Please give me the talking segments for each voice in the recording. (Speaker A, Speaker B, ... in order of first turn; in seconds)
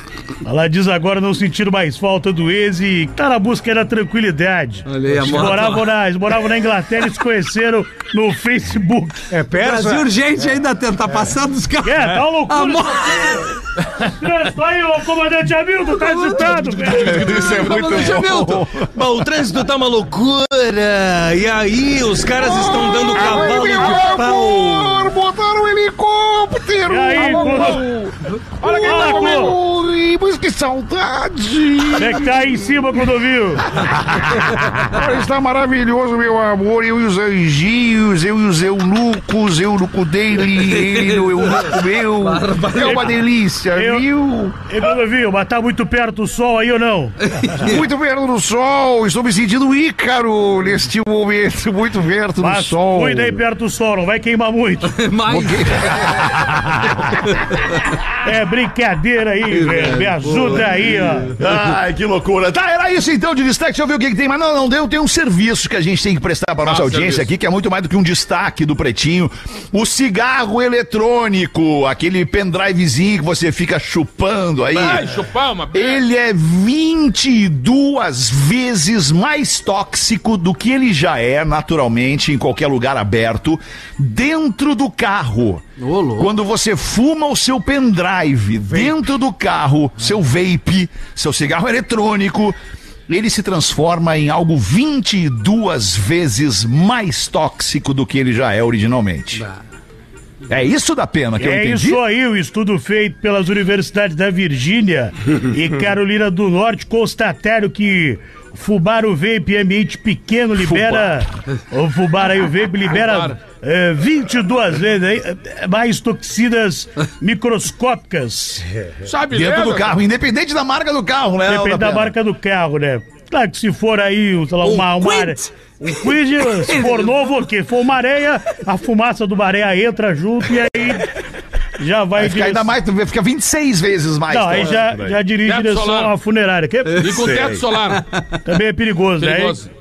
Speaker A: 0.4-9.3, 11.8-17.4, 26.9-27.9, 28.8-29.6, 32.0-33.7, 43.7-44.1, 44.7-47.2, 52.4-55.0, 58.2-61.4, 101.4-118.7, 121.5-131.1, 131.8-132.7, 134.3-137.2, 138.4-139.6
Speaker B: 4.9-5.9, 9.6-13.6, 15.9-18.7, 40.6-43.2, 47.2-47.9, 54.9-56.3, 57.3-57.6, 59.5-61.6, 85.8-86.3, 124.6-127.2, 137.9-138.2
Speaker C: 9.3-10.1, 18.8-25.0
Speaker D: 17.0-18.9, 22.4-32.9, 33.7-44.6, 47.6-53.4, 55.3-57.4, 61.4-75.1, 75.7-85.7, 86.2-92.6, 93.1-99.5, 100.5-102.0, 110.6-111.2, 119.3-122.1, 132.2-135.2, 137.1-137.7
Speaker E: 17.4-18.3, 27.5-27.8, 28.6-29.5, 66.6-67.3, 74.7-76.0, 113.0-113.3, 119.0-120.0, 135.4-136.1, 137.0-138.1, 139.2-139.7